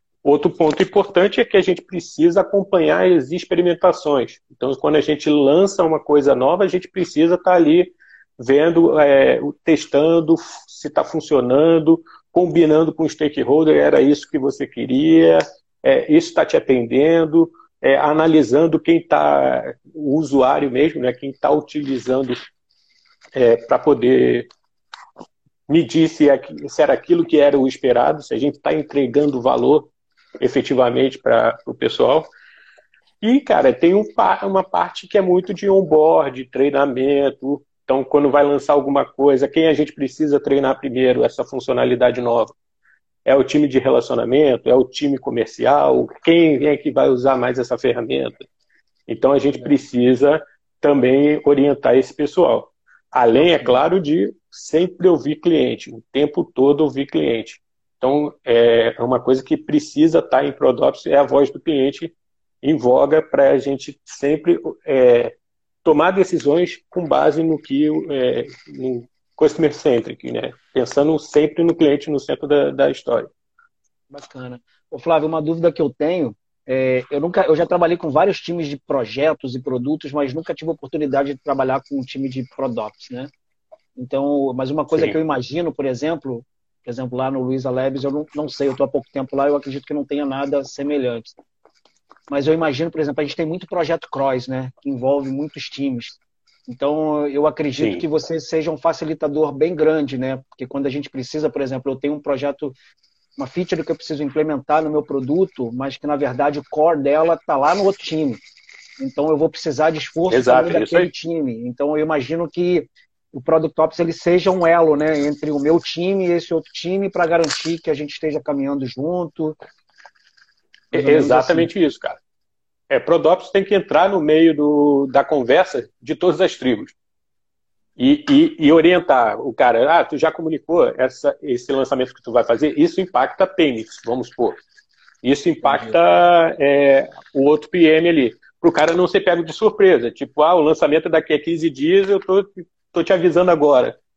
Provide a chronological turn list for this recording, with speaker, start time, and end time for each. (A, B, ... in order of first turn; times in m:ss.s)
0:00.2-0:22.5 A
0:23.4-0:24.5 A
0:25.7-0:32.3 A
0:33.2-0:42.5 A
0:43.3-0:48.5 A
0:49.1-1:05.3 A
0:53.5-0:53.8 B
1:05.8-1:13.3 A
1:14.1-1:23.3 B
1:24.0-1:31.4 B
1:24.9-1:25.2 A
1:32.3-1:42.8 B
1:37.8-1:38.0 A
1:43.4-1:48.4 B
1:49.0-1:59.6 B
1:50.3-1:51.1 A
2:00.9-2:01.7 B
2:00.9-2:02.2 A
2:02.9-2:07.0 A
2:08.0-2:14.6 A
2:15.2-2:24.0 A
2:15.6-2:16.0 B